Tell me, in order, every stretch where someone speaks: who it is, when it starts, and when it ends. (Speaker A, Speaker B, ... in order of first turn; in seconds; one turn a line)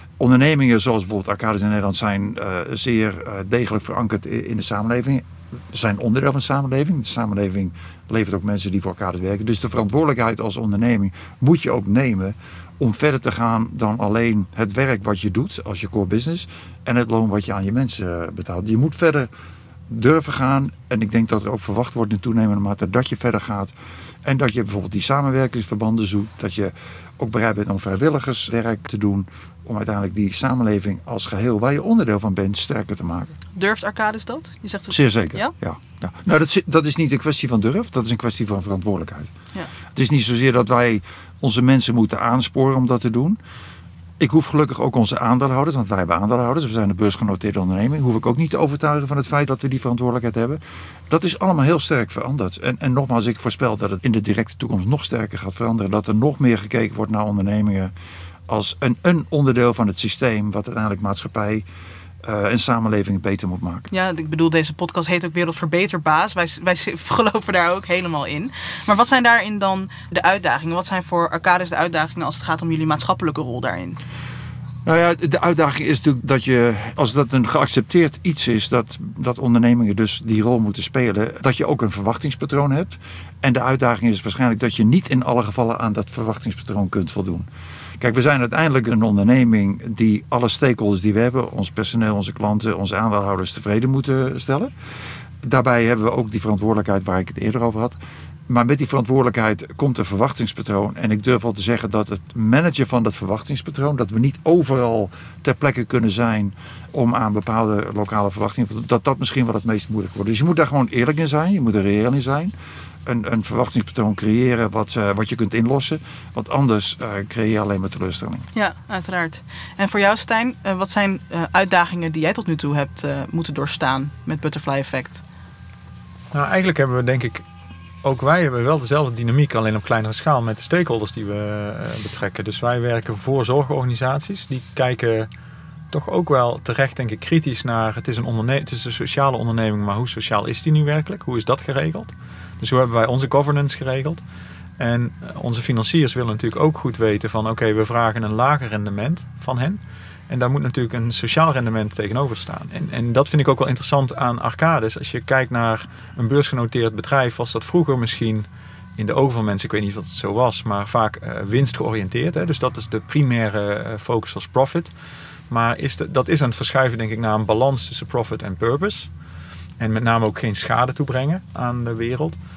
Speaker A: 0.2-19.3
Speaker A: 19.9-33.4
Speaker B: 33.5-35.5
Speaker A: 34.9-39.3
Speaker A: 39.9-43.4
Speaker A: 44.2-57.9
Speaker A: 58.5-61.6
Speaker A: 62.2-63.9
Speaker B: 63.9-74.0
Speaker A: 74.8-87.5
Speaker A: 88.0-94.7
Speaker A: 95.4-98.0
Speaker A: 98.5-112.5
Speaker A: 113.0-118.5
Speaker B: 118.5-125.2
Speaker C: 126.3-127.4
Speaker C: 128.0-135.3
Speaker C: 135.9-144.2
Speaker C: 144.8-164.9
Speaker C: 165.5-169.1
Speaker C: 169.8-172.4